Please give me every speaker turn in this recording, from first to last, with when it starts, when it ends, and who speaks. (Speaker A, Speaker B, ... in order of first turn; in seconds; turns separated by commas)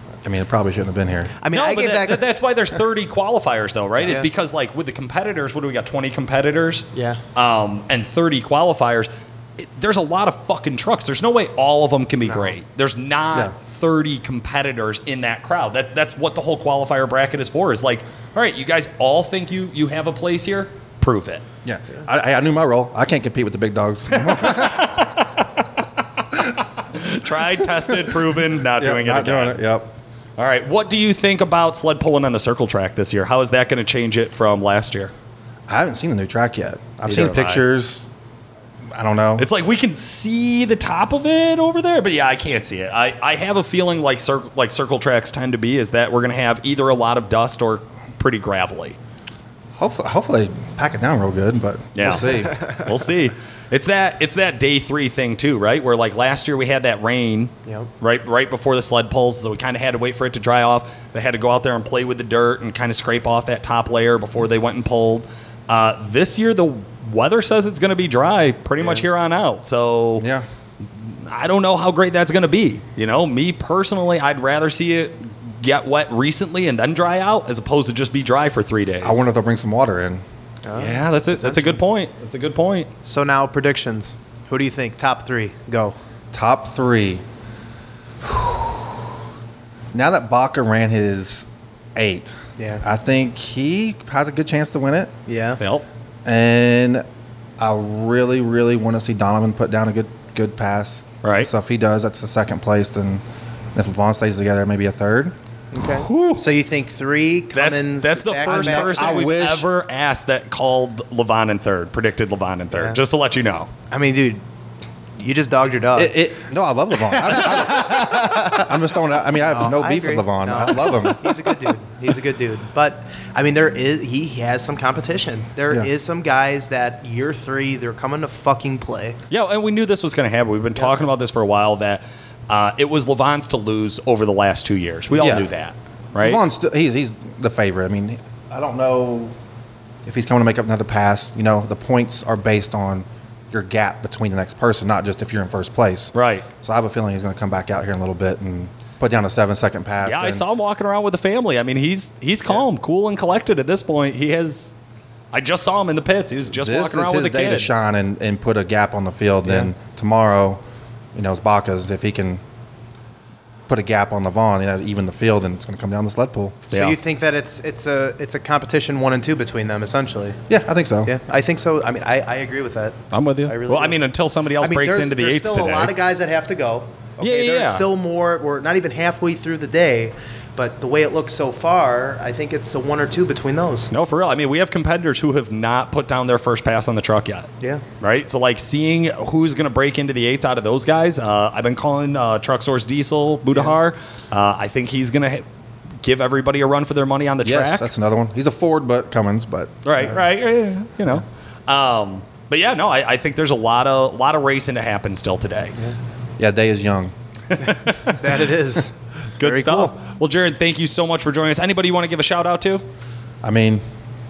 Speaker A: 0.2-1.4, Speaker B: 1.4-2.3, Speaker C: 1.5-21.4, Speaker B: 4.0-4.3, Speaker B: 6.9-7.2, Speaker A: 21.6-25.1, Speaker C: 24.4-24.9, Speaker C: 26.9-29.6, Speaker A: 27.7-28.2, Speaker A: 28.8-29.9, Speaker C: 30.4-35.1, Speaker A: 35.7-38.1, Speaker C: 37.0-37.6, Speaker A: 38.9-39.5, Speaker C: 39.4-49.0, Speaker A: 49.8-52.6, Speaker C: 51.9-70.3, Speaker C: 71.0-79.3, Speaker A: 79.0-80.2, Speaker B: 80.6-81.8, Speaker C: 80.7-82.9, Speaker B: 83.0-86.0, Speaker A: 86.3-87.2, Speaker A: 88.2-89.0, Speaker A: 89.9-95.1, Speaker B: 92.6-92.8, Speaker B: 95.3-95.6, Speaker C: 95.6-95.8, Speaker A: 96.2-97.0, Speaker A: 97.6-103.2, Speaker C: 101.2-101.5, Speaker A: 103.7-105.3, Speaker B: 105.7-109.3, Speaker C: 105.8-106.4, Speaker C: 107.5-113.7, Speaker A: 108.5-109.7, Speaker B: 112.7-113.0, Speaker B: 113.9-114.4, Speaker B: 115.2-116.2, Speaker A: 116.0-121.5, Speaker B: 117.0-118.6, Speaker B: 119.5-129.2, Speaker C: 129.3-136.4, Speaker A: 135.1-135.5, Speaker A: 136.2-139.3, Speaker A: 140.1-150.4, Speaker C: 146.1-146.4, Speaker C: 150.0-154.8, Speaker C: 155.3-157.7, Speaker A: 156.5-160.6, Speaker B: 159.4-159.7, Speaker A: 161.1-162.4, Speaker A: 163.7-166.7, Speaker B: 166.7-170.4, Speaker C: 166.7-167.0, Speaker A: 170.5-171.1, Speaker B: 171.1-174.0, Speaker C: 173.1-175.9, Speaker B: 174.6-183.9, Speaker C: 177.2-177.8, Speaker C: 183.9-187.5, Speaker C: 188.0-195.4, Speaker C: 196.0-197.9, Speaker A: 197.4-200.3, Speaker C: 199.8-205.8, Speaker A: 206.4-207.1, Speaker C: 207.7-208.2, Speaker B: 207.8-209.9, Speaker C: 209.4-212.8, Speaker A: 213.4-213.8